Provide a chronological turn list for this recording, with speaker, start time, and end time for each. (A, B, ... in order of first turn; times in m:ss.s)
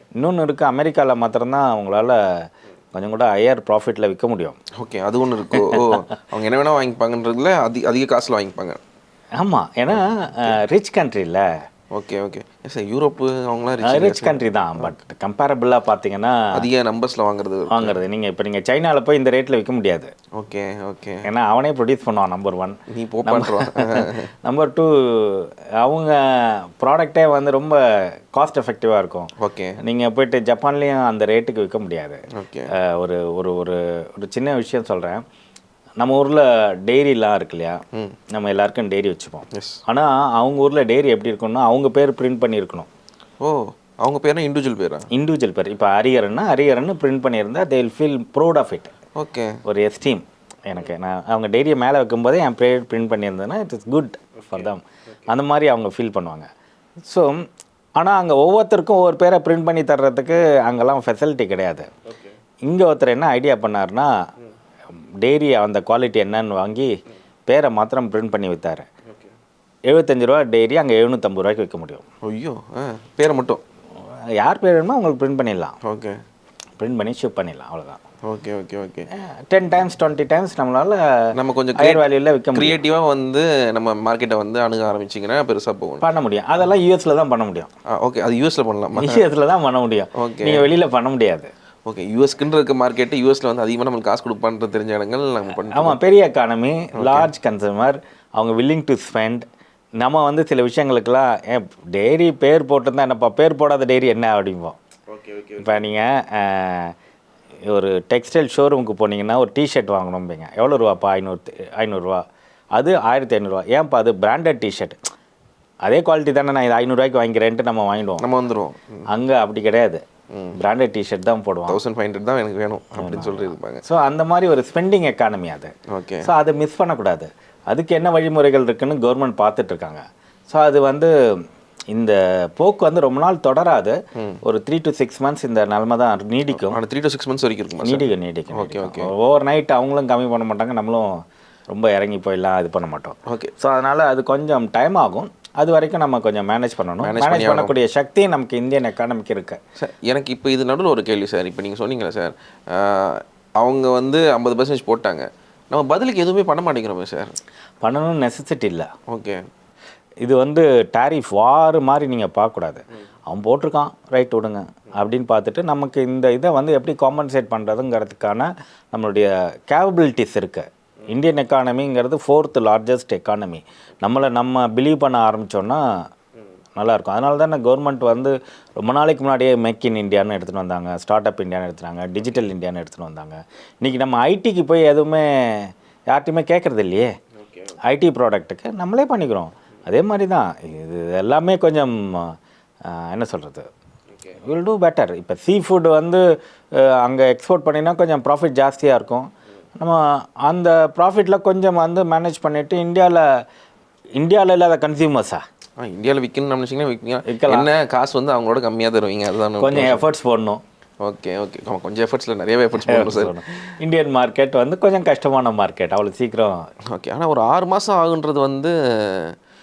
0:00.2-0:04.6 A
0:04.8-0:08.8 B
0:09.4-0:11.5 A
0:09.9-0:10.6 B
0:11.9-0:14.9 B
0:13.8-0:16.7 A
0:16.5-0:18.0 B
0:17.7-0:20.1 A
0:20.4-0:21.3 B
0:21.2-0:35.2 A
0:22.9-0:24.3 B
0:29.4-0:29.8 B
0:32.3-0:32.7 B
0:36.0-0:42.9 A
0:39.5-0:39.8 B
0:43.4-0:45.1 B
0:45.1-0:48.9 A
0:49.2-0:49.6 B
0:49.6-0:56.5 A
0:57.1-0:57.4 A
0:58.0-1:01.9 A
1:02.6-1:04.1 A
1:05.2-1:06.9 A
1:07.5-1:08.9 A
1:09.9-1:12.0 A
1:12.2-1:13.6 B
1:14.4-1:15.8 A
1:15.8-1:16.2 B
1:16.8-1:18.0 A
1:18.2-1:19.1 B
1:19.1-1:22.8 A
1:21.4-1:26.0 B
1:26.0-1:27.7 A
1:27.9-1:29.2 B
1:29.0-1:31.5 A
1:30.2-1:30.6 B
1:31.9-1:36.0 B
1:35.7-1:39.5 A
1:37.0-1:37.3 B
1:40.0-1:44.8 A
1:45.1-1:45.9 B
1:45.6-1:46.9 A
1:47.7-1:52.2 A
1:52.8-1:55.0 A
1:55.8-1:58.3 A
1:58.2-1:59.0 B
1:59.1-2:00.0 A
2:00.6-2:01.8 A
2:01.7-2:03.8 B
2:03.0-2:05.7 A
2:05.9-2:06.3 B
2:06.2-2:11.1 A
2:11.9-2:16.8 A
2:16.5-2:19.1 B
2:17.8-2:29.6 A
2:23.3-2:23.5 B
2:27.0-2:27.7 B
2:29.8-2:37.3 B
2:37.8-2:38.9 A
2:39.1-2:39.4 B
2:40.2-2:55.8 A
2:56.8-3:07.1 A
3:07.4-3:07.8 B
3:07.9-3:13.7 A
3:14.4-3:23.4 A
3:24.2-3:25.4 A
3:25.8-3:30.0 B
3:27.3-3:27.7 A
3:29.6-3:30.6 A
3:31.0-3:33.6 B
3:32.8-3:36.7 A
3:36.9-3:39.4 B